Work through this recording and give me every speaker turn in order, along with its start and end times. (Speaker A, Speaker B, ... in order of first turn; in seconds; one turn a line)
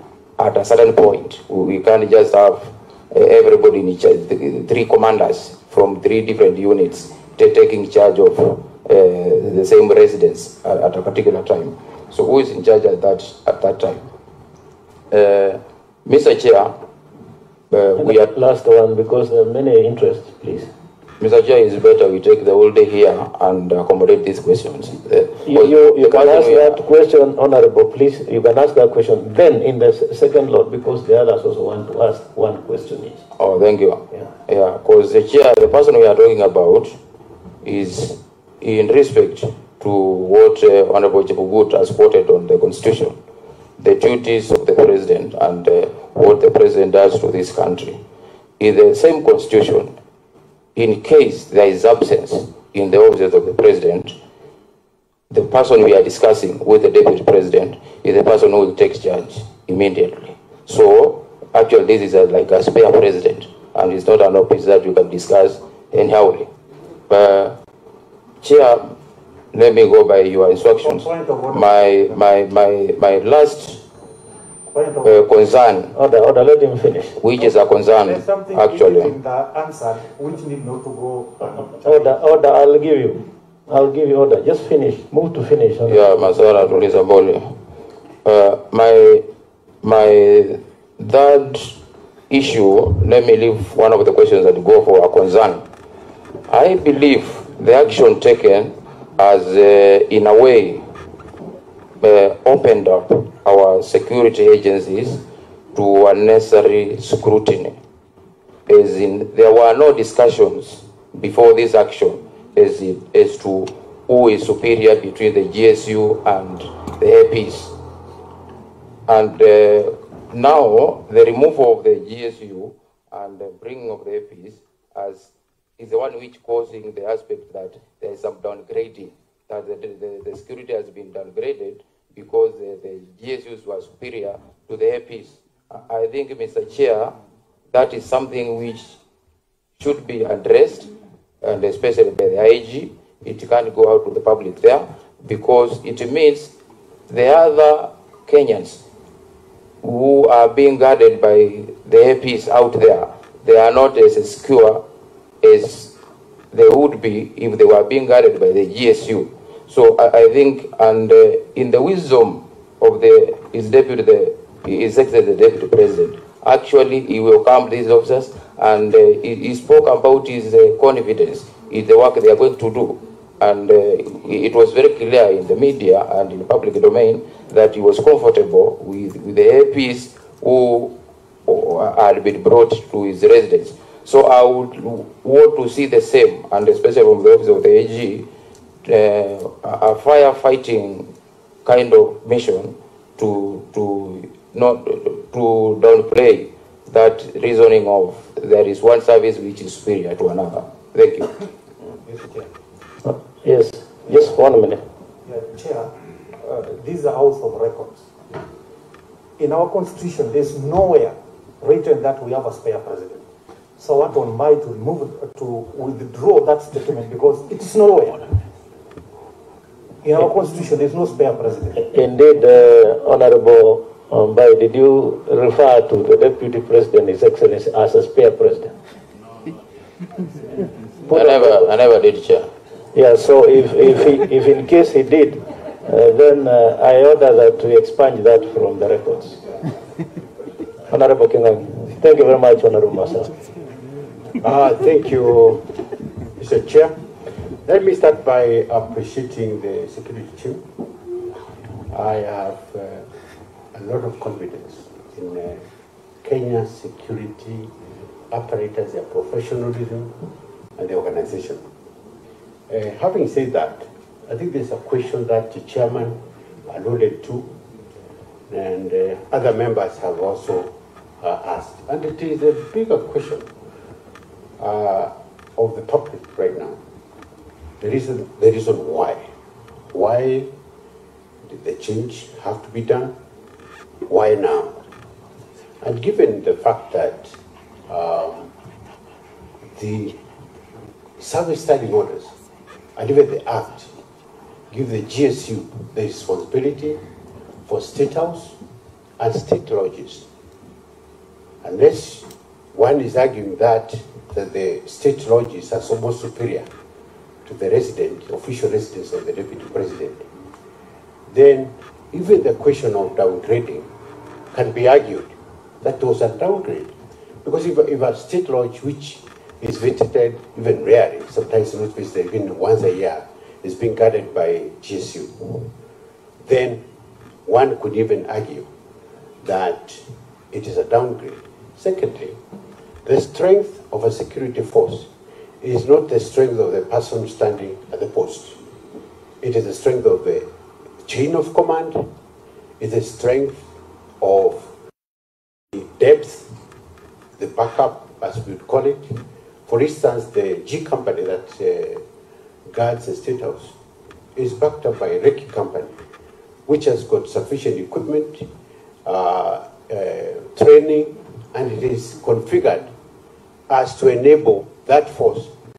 Speaker A: 0.4-14.1
Speaker A: 15.1-16.8
Speaker A: 17.7-18.3
Speaker B: 18.0-20.7
Speaker A: 21.2-26.8
Speaker B: 25.4-33.2
Speaker A: 33.4-37.0
Speaker A: 37.6-43.2
Speaker A: 43.8-48.0
Speaker A: 48.6-49.9
Speaker A: 50.8-54.1
Speaker A: 55.3-66.5
Speaker A: 67.1-67.6
Speaker A: 68.4-68.9
Speaker A: 69.5-73.8
Speaker C: 70.7-72.2
Speaker C: 74.7-75.1
Speaker A: 75.0-75.9
Speaker B: 75.9-77.2
Speaker A: 77.2-79.2
Speaker C: 77.4-82.2
Speaker B: 81.8-86.2
Speaker A: 85.9-87.5
Speaker A: 88.2-89.2
Speaker A: 89.8-91.8
Speaker A: 92.3-95.6
Speaker A: 96.5-100.8
Speaker A: 102.0-105.2
Speaker A: 105.7-107.8
Speaker A: 108.7-117.8
Speaker A: 119.1-137.2
Speaker A: 137.7-139.0
Speaker A: 139.8-140.9
Speaker A: 141.4-146.5
Speaker A: 147.1-148.8
Speaker A: 149.8-154.8
Speaker A: 155.4-155.9
Speaker A: 156.5-180.9
Speaker A: 181.5-188.3
Speaker A: 188.8-191.1
Speaker A: 191.7-201.4
Speaker C: 202.1-202.5
Speaker B: 203.1-204.8
Speaker C: 205.3-208.1
Speaker C: 209.4-213.2
Speaker C: 213.8-218.4
Speaker C: 220.0-221.8
Speaker B: 221.8-228.7
Speaker B: 231.1-231.7
Speaker A: 231.1-232.5
Speaker B: 232.9-239.4
Speaker B: 240.9-243.3
Speaker D: 244.4-245.8
Speaker D: 246.4-247.0
Speaker D: 247.6-250.6
Speaker D: 251.9-253.1
Speaker D: 253.7-255.6
Speaker D: 256.2-257.7
Speaker D: 258.3-260.2
Speaker D: 260.8-261.6
Speaker D: 262.7-267.5
Speaker D: 268.5-273.5
Speaker D: 274.6-276.8
Speaker D: 277.8-279.3
Speaker D: 279.9-280.5
Speaker D: 281.4-283.1
Speaker D: 284.1-284.8
Speaker D: 285.8-287.4
Speaker D: 287.9-288.5
Speaker D: 289.7-290.2
Speaker D: 291.2-292.3
Speaker D: 293.0-293.9
Speaker D: 294.7-297.0
Speaker D: 297.7-298.6
Speaker D: 299.2-300.3
Speaker D: 301.6-306.7
Speaker D: 307.5-310.3
Speaker D: 311.3-313.9
Speaker D: 314.5-316.9
Speaker D: 317.4-325.7
Speaker D: 326.4-326.8
Speaker D: 327.5-328.7
Speaker D: 329.4-332.4
Speaker D: 333.1-335.1
Speaker D: 335.6-338.6
Speaker D: 339.4-340.5
Speaker D: 341.1-342.1
Speaker D: 342.8-343.7
Speaker D: 344.2-344.7
Speaker D: 345.7-346.5
Speaker D: 347.4-352.0
Speaker D: 352.7-353.7
Speaker D: 354.4-355.9
Speaker D: 356.7-358.5
Speaker D: 359.1-362.9
Speaker D: 363.7-365.5